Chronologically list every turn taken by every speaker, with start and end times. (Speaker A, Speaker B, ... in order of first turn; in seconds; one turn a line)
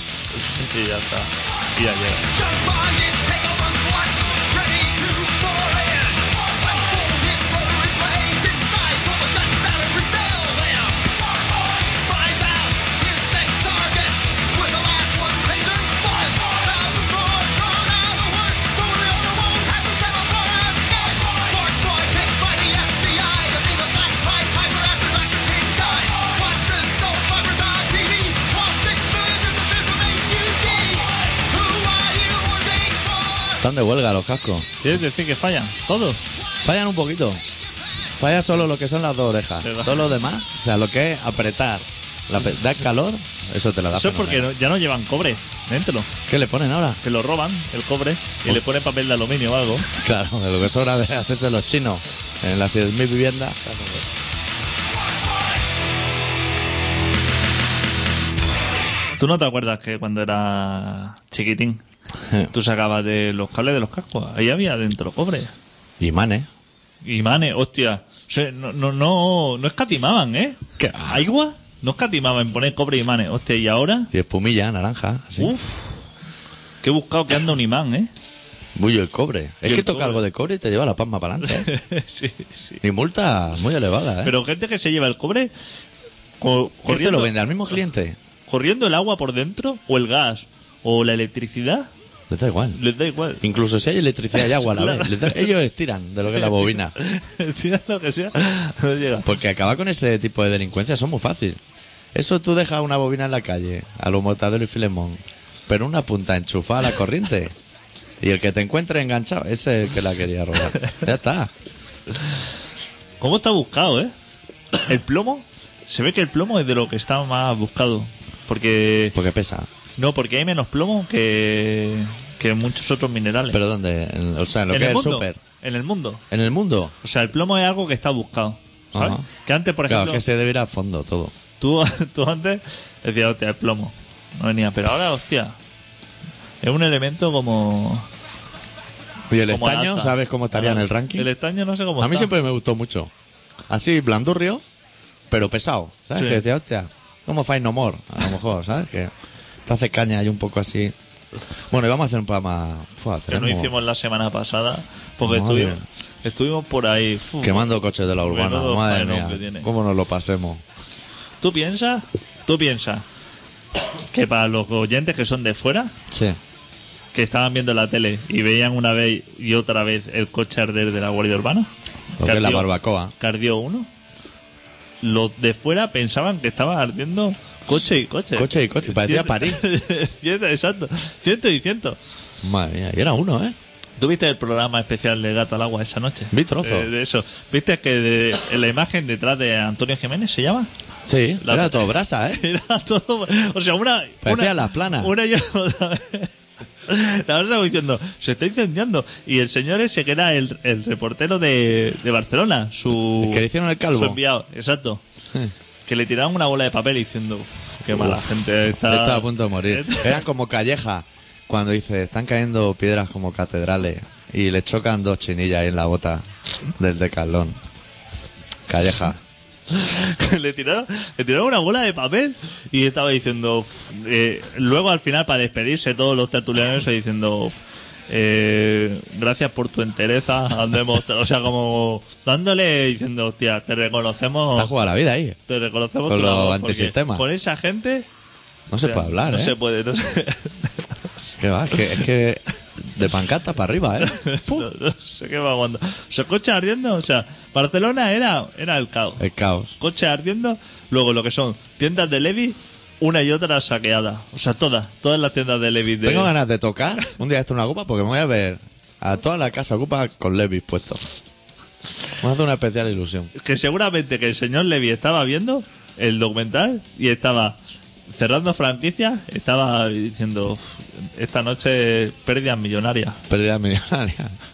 Speaker A: 0.4-2.3
Speaker B: 2.3-33.6
Speaker C: 33.6-34.7
Speaker A: 34.8-36.2
Speaker C: 36.6-37.4
Speaker C: 38.2-44.5
Speaker A: 39.6-40.1
Speaker A: 43.9-46.1
Speaker C: 46.3-47.0
Speaker A: 47.0-49.9
Speaker C: 49.9-54.0
Speaker A: 59.2-61.8
Speaker A: 62.5-65.5
Speaker C: 66.0-66.5
Speaker A: 67.0-74.1
Speaker C: 70.8-71.2
Speaker C: 74.1-75.5
Speaker A: 75.4-76.0
Speaker A: 76.8-78.1
Speaker C: 78.7-81.7
Speaker A: 79.6-80.2
Speaker A: 81.5-82.8
Speaker C: 82.8-84.3
Speaker A: 84.2-85.5
Speaker A: 86.4-87.3
Speaker C: 86.8-88.2
Speaker A: 88.5-91.9
Speaker C: 92.3-92.8
Speaker A: 92.8-93.4
Speaker C: 93.4-96.9
Speaker A: 94.3-95.5
Speaker A: 96.5-99.2
Speaker C: 99.2-101.6
Speaker C: 102.1-107.5
Speaker C: 108.2-111.5
Speaker A: 113.2-114.1
Speaker A: 114.8-119.2
Speaker C: 119.1-119.7
Speaker A: 120.0-123.6
Speaker C: 123.5-125.4
Speaker A: 124.7-126.2
Speaker C: 126.3-126.9
Speaker A: 127.0-130.2
Speaker C: 128.9-129.2
Speaker C: 129.9-131.3
Speaker A: 131.6-135.6
Speaker A: 136.6-138.1
Speaker C: 139.3-141.3
Speaker A: 139.5-142.3
Speaker C: 142.0-143.1
Speaker C: 143.7-144.6
Speaker C: 145.3-149.1
Speaker A: 146.2-146.4
Speaker C: 149.7-150.9
Speaker C: 151.7-153.7
Speaker A: 153.3-159.7
Speaker C: 155.2-155.8
Speaker C: 157.4-160.6
Speaker A: 161.4-163.0
Speaker A: 164.1-165.9
Speaker C: 166.1-166.4
Speaker A: 167.1-173.9
Speaker C: 172.2-173.1
Speaker A: 175.0-182.0
Speaker C: 178.3-179.6
Speaker C: 182.4-183.6
Speaker A: 184.0-190.7
Speaker C: 186.3-186.9
Speaker C: 191.1-192.4
Speaker A: 191.4-196.3
Speaker C: 194.2-195.1
Speaker A: 196.8-205.0
Speaker C: 203.2-204.2
Speaker A: 205.8-210.2
Speaker C: 207.9-216.2
Speaker C: 216.8-217.6
Speaker C: 218.7-219.2
Speaker A: 219.7-227.6
Speaker A: 228.1-234.7
Speaker C: 234.5-235.4
Speaker A: 235.5-238.1
Speaker C: 236.1-237.3
Speaker C: 238.7-239.5
Speaker A: 238.8-240.8
Speaker C: 241.4-244.7
Speaker A: 244.0-249.2
Speaker C: 249.2-249.7
Speaker A: 249.8-256.3
Speaker C: 256.0-261.0
Speaker C: 262.2-263.3
Speaker A: 263.4-267.6
Speaker A: 268.1-273.2
Speaker C: 273.3-274.3